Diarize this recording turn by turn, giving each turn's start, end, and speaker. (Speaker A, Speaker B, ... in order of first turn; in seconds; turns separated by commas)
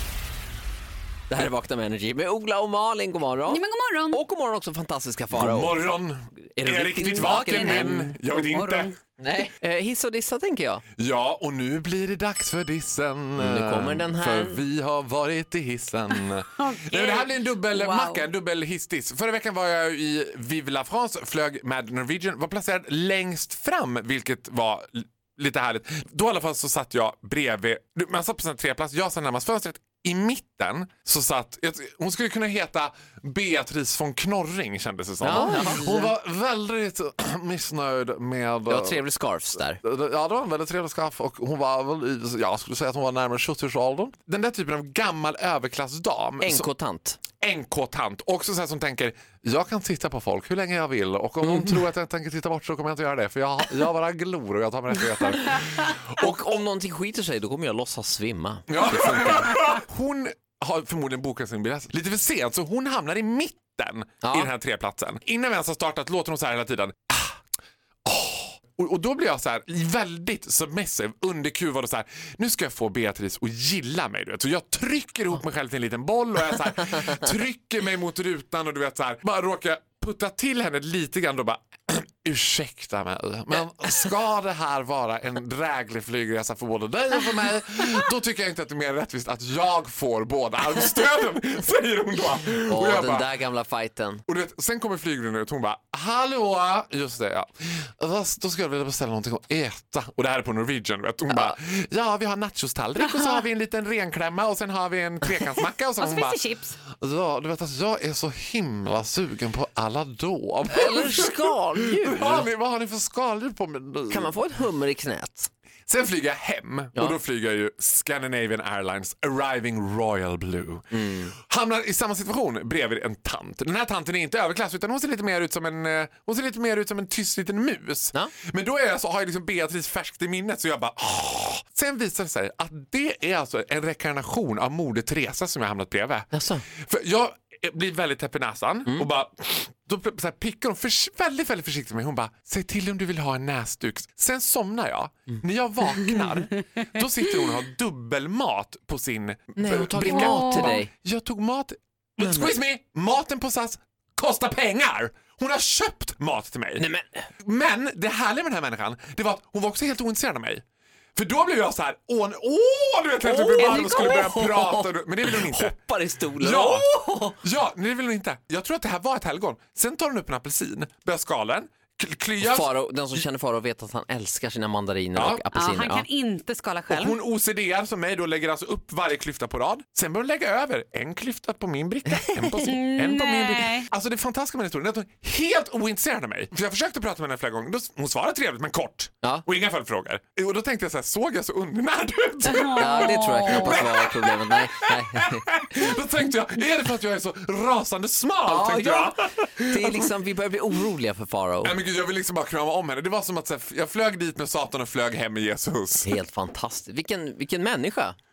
Speaker A: 1.3-5.8, Speaker B: 3.5-4.2, Speaker C: 5.3-8.9, Speaker A: 6.5-8.1, Speaker B: 7.0-8.9, Speaker A: 9.2-10.8, Speaker C: 10.9-39.0, Speaker A: 13.4-14.6, Speaker B: 16.6-18.2, Speaker A: 35.2-36.1, Speaker A: 38.6-39.8, Speaker C: 39.8-46.7, Speaker A: 46.4-47.2, Speaker C: 47.4-56.3, Speaker A: 51.4-51.7, Speaker A: 56.2-59.7, Speaker C: 58.7-67.4, Speaker A: 64.2-64.5, Speaker C: 68.0-93.3, Speaker A: 92.7-94.2, Speaker C: 94.3-114.3, Speaker A: 101.3-101.5, Speaker B: 106.0-106.8, Speaker A: 110.7-112.5, Speaker A: 114.1-115.5, Speaker C: 115.9-156.8, Speaker A: 120.9-121.3, Speaker A: 136.3-136.6, Speaker A: 149.6-150.9, Speaker B: 150.1-150.8, Speaker A: 152.2-152.5, Speaker A: 156.8-157.3, Speaker C: 157.4-160.6, Speaker C: 161.1-165.8, Speaker A: 163.2-167.4, Speaker B: 163.6-164.1, Speaker C: 166.4-173.2, Speaker A: 172.4-176.1, Speaker C: 175.1-175.4, Speaker B: 175.5-177.2, Speaker C: 176.9-200.1, Speaker A: 182.2-182.5, Speaker B: 182.6-183.9, Speaker B: 192.4-193.9, Speaker A: 192.8-195.5, Speaker A: 198.4-201.8, Speaker C: 201.6-206.1, Speaker A: 206.0-208.2